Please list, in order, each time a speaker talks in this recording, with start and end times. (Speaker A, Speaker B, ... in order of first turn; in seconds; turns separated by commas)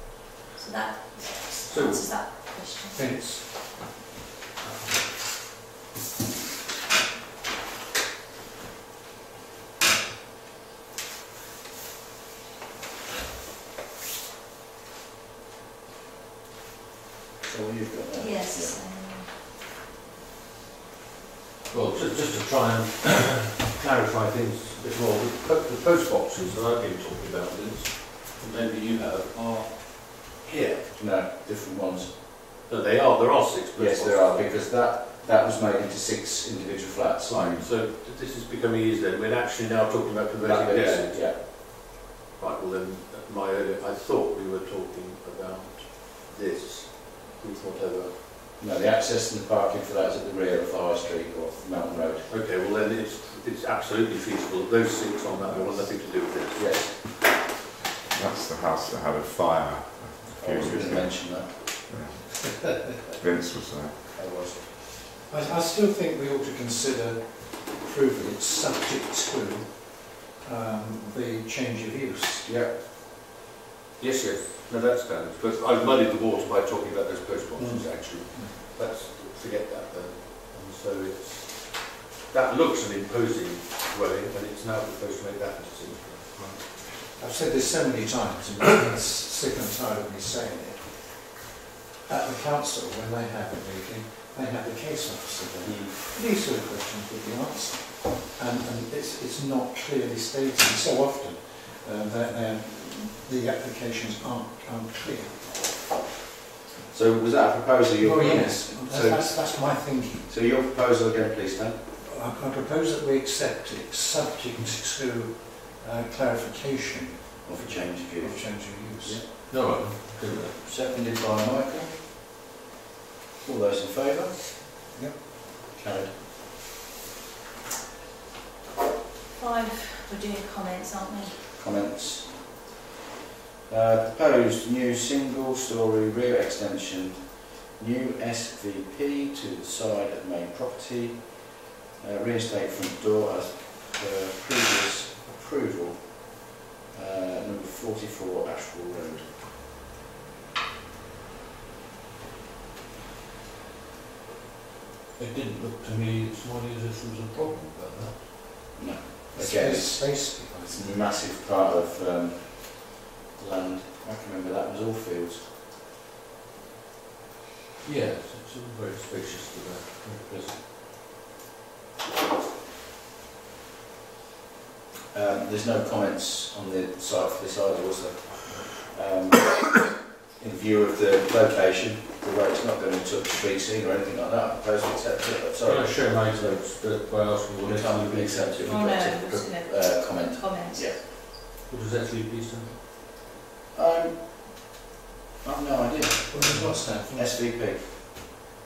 Speaker A: 0.6-3.0, Speaker B: 1.7-2.0, Speaker C: 2.9-3.5, Speaker D: 17.4-18.8, Speaker A: 18.2-19.3, Speaker B: 21.7-30.9, Speaker D: 30.9-32.2, Speaker B: 32.7-34.5, Speaker D: 33.8-37.7, Speaker B: 37.3-41.5, Speaker D: 40.4-41.4, Speaker B: 42.4-48.2, Speaker D: 48.6-52.3, Speaker B: 52.3-56.6, Speaker D: 56.5-57.0, Speaker E: 58.1-64.1, Speaker D: 60.4-61.7, Speaker D: 64.1-64.7, Speaker C: 65.2-72.4, Speaker D: 72.5-72.8, Speaker B: 74.0-86.6, Speaker C: 77.6-78.6, Speaker C: 86.9-91.2, Speaker C: 92.0-105.8, Speaker B: 95.6-96.0, Speaker D: 106.9-109.5, Speaker C: 108.0-110.3, Speaker D: 110.3-111.8, Speaker C: 112.0-119.2, Speaker D: 117.4-119.2, Speaker B: 119.1-120.6, Speaker D: 120.6-122.2, Speaker D: 123.4-124.8, Speaker C: 124.9-125.2, Speaker D: 125.7-126.2, Speaker A: 129.3-131.4, Speaker D: 131.6-132.6, Speaker D: 133.7-149.3, Speaker B: 155.2-158.2, Speaker D: 158.8-165.5, Speaker C: 159.3-160.9, Speaker B: 167.8-170.6, Speaker D: 175.1-191.2, Speaker B: 185.6-189.4, Speaker A: 188.7-190.9, Speaker B: 191.7-192.8, Speaker D: 193.7-194.8, Speaker D: 195.4-197.9, Speaker C: 196.3-197.2